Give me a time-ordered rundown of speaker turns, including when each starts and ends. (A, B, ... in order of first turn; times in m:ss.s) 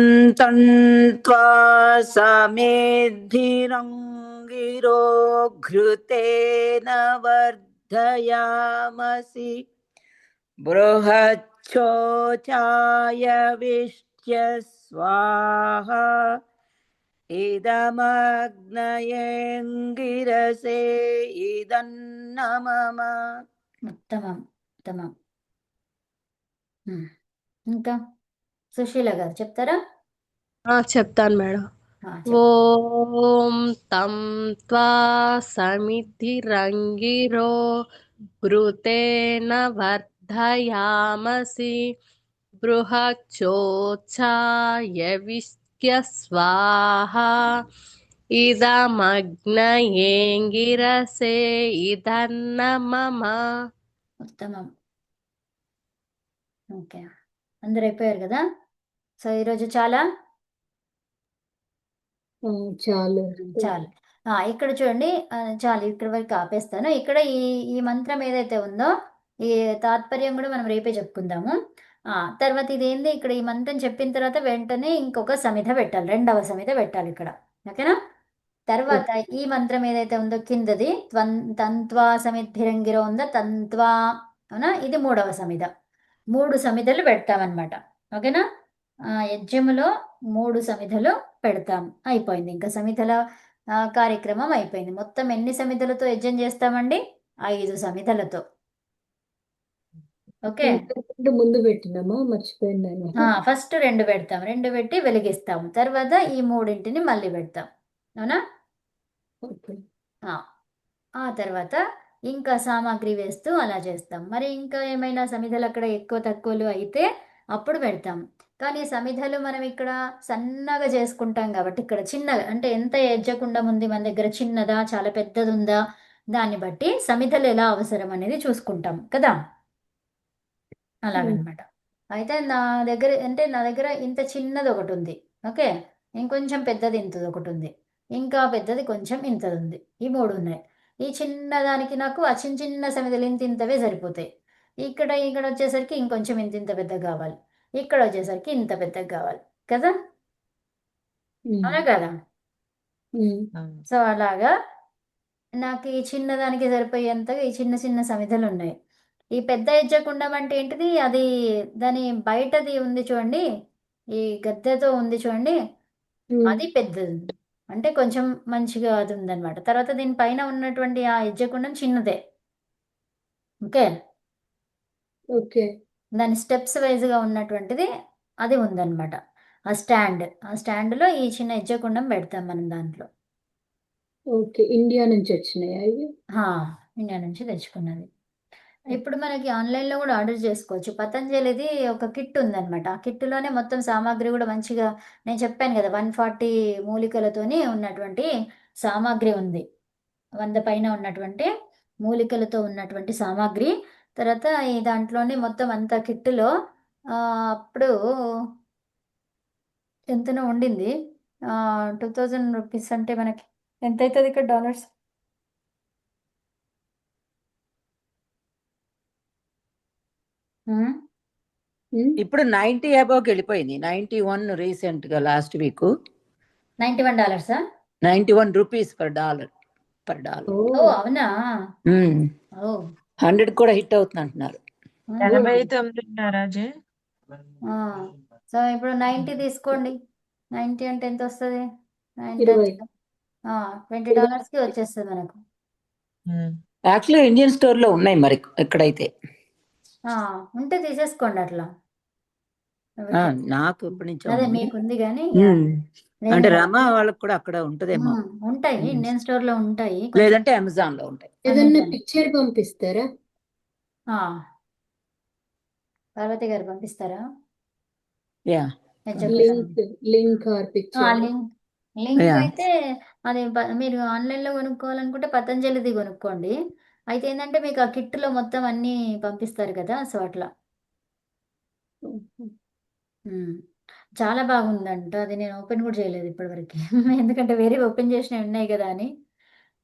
0:00.4-0:00.6 A
0:01.2-0:09.5 A
0:10.7-0:16.0 A
0:17.4-0:23.1 A
0:23.9-0:25.1 B
0:27.7-0:28.0 B
0:28.8-0:29.8 B
0:30.7-0:31.6 C
0:32.1-0:32.4 B
0:32.3-0:37.5 C
0:38.4-0:41.8 C
0:42.6-0:44.3 C
0:45.0-0:47.3 C
0:48.4-0:53.4 C
0:54.3-0:54.7 B
0:56.8-0:57.1 B
0:57.6-0:58.4 B
0:59.2-1:00.0 B
1:02.5-1:03.7 D
1:03.4-1:08.9 B
1:09.5-1:11.6 B
1:12.2-1:18.0 B
1:18.7-1:23.9 B
1:24.6-1:25.7 B
1:26.4-1:28.4 B
1:29.3-1:33.2 B
1:33.9-1:38.4 B
1:40.5-1:40.8 B
1:40.6-1:43.3 D
1:43.2-1:47.7 B
1:49.5-1:49.8 D
1:51.2-1:51.8 B
1:52.3-1:57.0 B
1:57.6-2:05.8 B
2:06.4-2:09.4 B
2:11.1-2:11.6 B
2:12.2-2:15.7 B
2:16.2-2:24.3 B
2:24.8-2:29.9 B
2:31.5-2:31.8 D
2:31.7-2:32.1 B
2:33.2-2:33.4 D
2:33.6-2:33.8 E
2:33.9-2:34.5 B
2:35.6-2:38.8 B
2:39.4-2:41.3 B
2:41.8-2:43.4 B
2:44.2-2:45.6 B
2:46.3-2:46.6 D
2:46.5-2:52.2 B
2:55.4-2:55.7 D
2:56.2-2:57.9 B
2:58.4-2:59.2 B
2:59.7-3:03.1 B
3:04.4-3:06.1 D
3:06.4-3:08.1 B
3:08.9-3:18.3 B
3:18.8-3:19.6 B
3:20.4-3:21.5 B
3:22.1-3:26.5 B
3:27.7-3:27.9 B
3:30.2-3:30.9 B
3:31.5-3:34.9 B
3:42.2-3:45.9 A
3:46.8-3:47.6 B
3:48.1-3:49.5 A
3:50.1-3:50.5 A
3:50.5-3:51.0 D
3:50.8-3:51.3 B
3:51.9-3:52.3 A
3:53.2-3:54.6 A
3:55.1-3:55.7 B
3:55.2-3:56.7 E
3:55.3-3:55.6 D
3:57.7-3:58.0 B
3:58.5-4:00.0 B
4:00.6-4:01.6 B
4:02.2-4:02.9 B
4:02.4-4:02.8 D
4:03.5-4:05.4 B
4:04.1-4:04.4 D
4:06.3-4:06.6 E
4:06.9-4:09.1 A
4:10.1-4:11.7 B
4:13.0-4:13.4 B
4:13.2-4:14.7 A
4:14.3-4:15.6 B
4:15.4-4:15.8 A
4:16.3-4:16.7 B
4:16.3-4:18.2 A
4:18.0-4:20.4 B
4:20.2-4:21.4 A
4:21.5-4:23.0 D
4:21.5-4:22.0 B
4:26.2-4:27.2 B
4:29.1-4:29.8 B
4:29.2-4:29.5 A
4:29.3-4:31.3 D
4:31.0-4:31.4 B
4:32.0-4:32.7 B
4:32.2-4:32.5 A
4:33.3-4:36.6 B
4:37.1-4:40.5 B
4:42.1-4:42.5 D
4:43.3-4:43.6 B
4:44.2-4:49.1 B